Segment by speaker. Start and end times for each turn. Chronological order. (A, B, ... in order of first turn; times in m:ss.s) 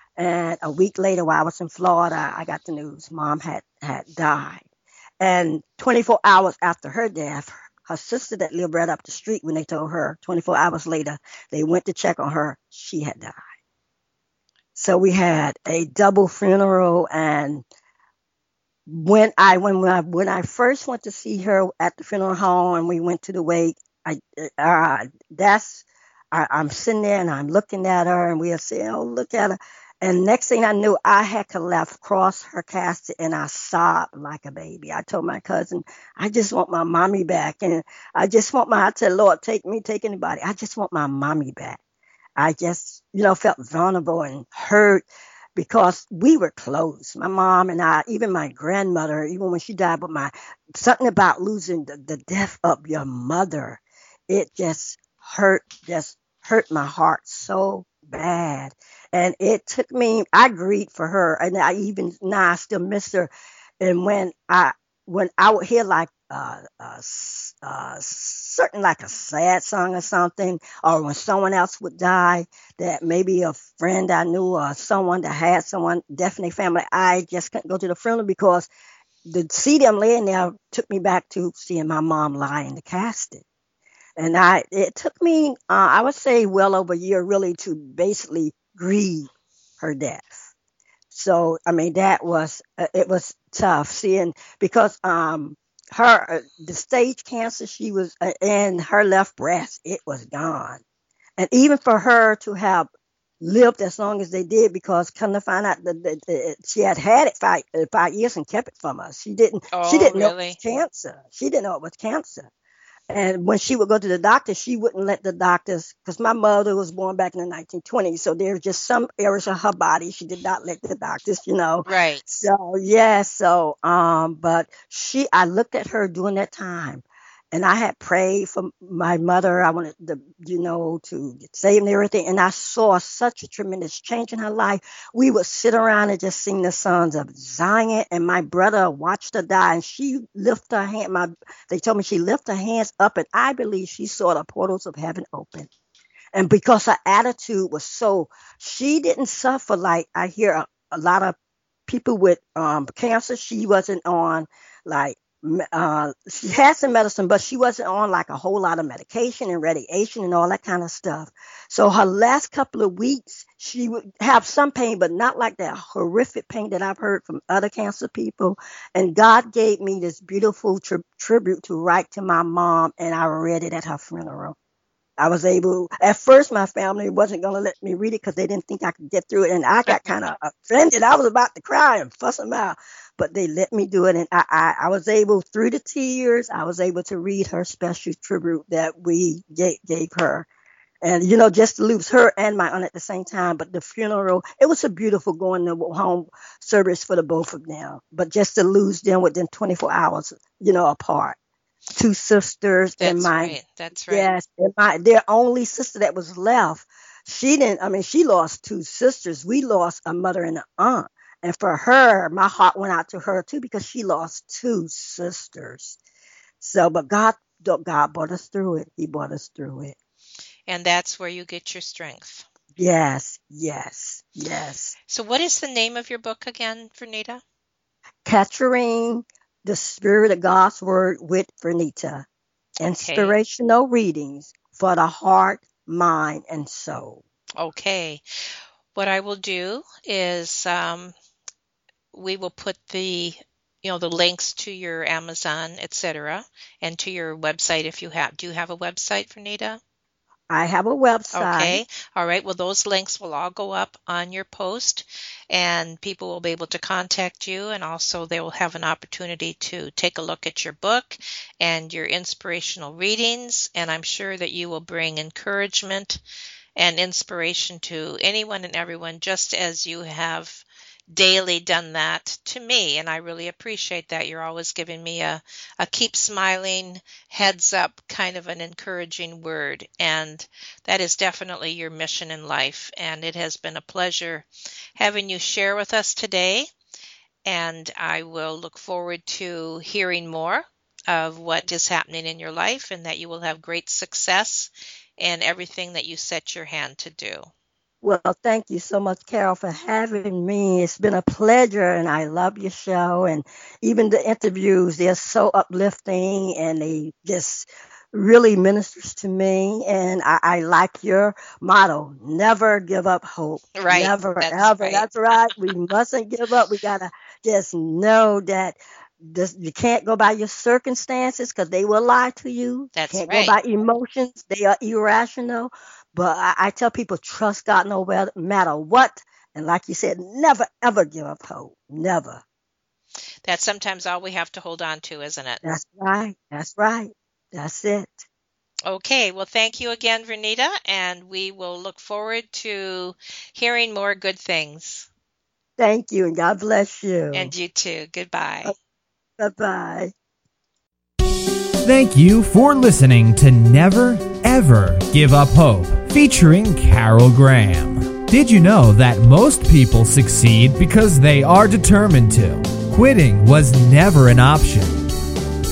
0:00.2-0:04.6 A
0:05.2-0:13.4 A
0:14.8-0:17.6 A
0:18.9-0:41.8 A
0:42.4-0:45.0 A
0:45.6-1:18.7 A
1:19.3-1:23.4 A
1:24.2-1:30.5 A
1:31.1-1:40.8 A
1:41.4-1:42.9 A
1:43.4-1:52.5 A
1:49.7-1:50.6 B
1:53.1-2:25.7 A
2:01.9-2:02.2 B
2:26.4-2:31.4 A
2:31.9-2:54.6 A
2:55.2-3:10.5 A
3:11.0-3:21.4 A
3:22.0-3:23.6 A
3:23.0-3:24.3 B
3:24.1-3:36.0 A
3:36.6-3:40.0 A
3:40.7-3:42.5 B
3:42.8-3:45.0 A
3:45.1-3:47.4 B
3:48.2-3:52.3 A
3:52.8-3:57.2 A
3:52.9-3:53.4 B
3:57.6-4:01.2 B
4:02.1-4:09.8 B
4:10.5-4:11.8 A
4:11.3-4:26.2 B
4:26.8-4:46.7 B
4:47.4-4:57.5 B
4:58.0-5:32.4 A
5:13.8-5:15.5 B
5:23.0-5:23.6 B
5:33.4-5:35.6 B
5:35.6-5:38.3 A
5:38.9-5:45.1 B
5:45.8-5:47.5 A
5:47.3-5:48.7 B
5:49.4-5:50.1 A
5:51.8-6:05.1 C